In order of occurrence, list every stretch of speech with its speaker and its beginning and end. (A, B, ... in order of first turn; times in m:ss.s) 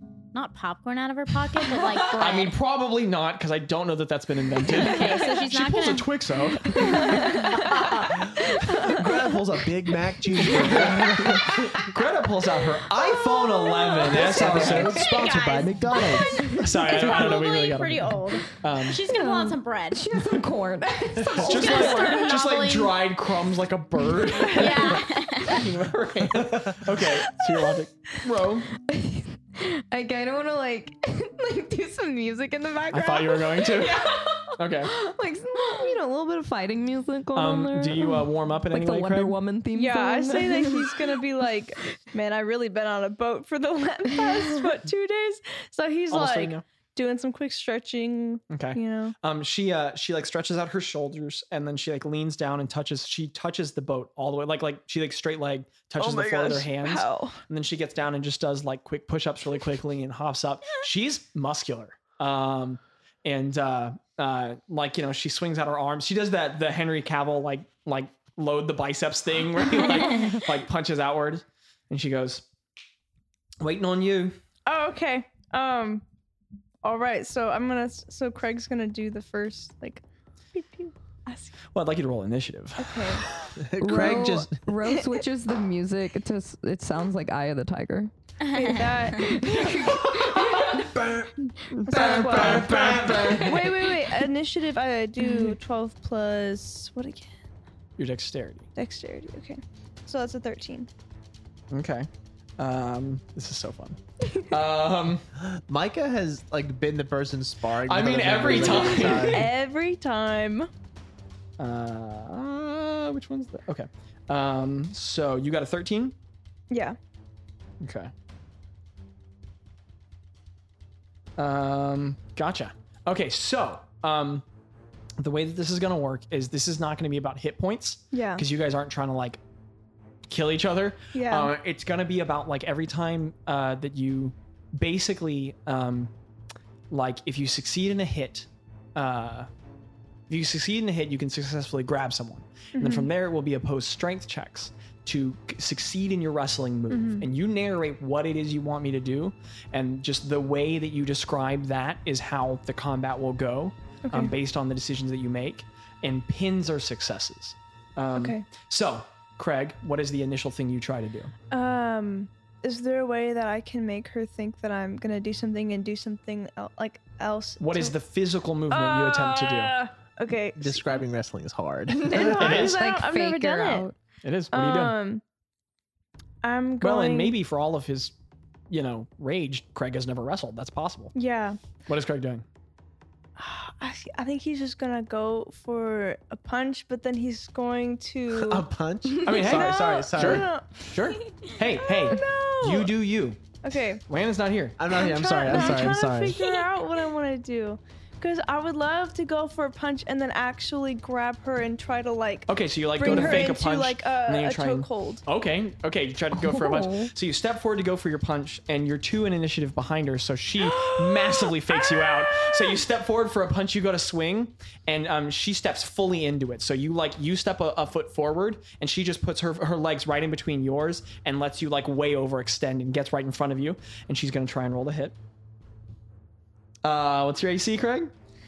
0:00.3-0:02.6 A
0:02.0-0:08.2 B
0:04.6-0:06.1 A
0:06.8-0:07.9 C
0:07.2-0:07.6 A
0:08.0-0:11.9 D
0:10.4-0:19.0 B
0:13.7-0:14.0 C
0:14.1-0:16.3 D
0:14.1-0:20.1 A
0:14.7-0:14.9 C
0:16.1-0:16.9 C
0:19.1-0:22.4 C
0:21.3-0:28.7 B
0:21.4-0:23.0 A
0:24.4-0:25.6 A
0:26.4-0:26.8 D
0:28.8-0:40.9 C
0:32.9-0:34.9 B
0:37.3-0:39.4 B
0:39.7-0:49.2 E
0:46.1-0:46.7 B
0:48.5-1:12.5 B
0:56.0-0:57.4 E
1:13.6-1:14.4 B
1:14.7-1:16.0 E
1:16.8-1:21.6 E
1:21.7-1:23.5 B
1:22.8-1:23.3 E
1:23.6-1:24.6 D
1:23.8-1:28.1 C
1:28.5-1:29.0 A
1:28.5-1:29.8 E
1:29.1-1:30.9 C
1:30.2-1:31.3 D
1:31.8-1:33.8 B
1:31.9-1:33.6 D
1:31.9-1:37.3 E
1:31.9-1:32.4 C
1:38.0-1:38.7 B
1:38.8-1:40.9 E
1:41.7-1:45.2 B
1:45.4-1:49.5 D
1:47.8-1:49.5 B
1:48.6-1:50.7 E
1:51.6-1:56.2 B
1:56.7-1:57.0 E
1:57.8-1:58.1 B
2:01.4-2:04.4 B
2:05.2-2:09.4 B
2:08.1-2:08.4 E
2:10.3-2:16.1 B
2:11.1-2:11.6 E
2:16.9-2:19.5 B
2:20.3-2:41.3 B
2:22.7-2:23.1 E
2:26.9-2:27.3 E
2:34.0-2:34.3 E
2:38.1-2:38.5 E
2:41.5-2:48.0 E
2:47.6-2:49.8 B
2:48.7-2:51.0 E
2:50.6-2:52.7 D
2:52.0-2:54.0 C
2:52.1-2:53.9 E
2:52.4-2:52.8 B
2:54.2-2:55.0 B
2:54.5-2:55.2 E
2:56.4-2:57.4 E
2:56.8-2:58.1 B
2:58.7-3:01.1 B
3:01.1-3:01.6 E
3:01.9-3:02.4 B
3:03.4-3:08.6 E
3:08.3-3:10.5 D
3:09.2-3:13.6 B
3:09.3-3:13.0 E
3:13.6-3:14.0 E
3:14.1-3:14.8 B
3:14.8-3:16.5 D
3:14.9-3:25.2 E
3:22.5-3:45.2 B
3:23.0-3:23.5 C
3:26.4-3:27.1 C
3:46.8-3:48.1 B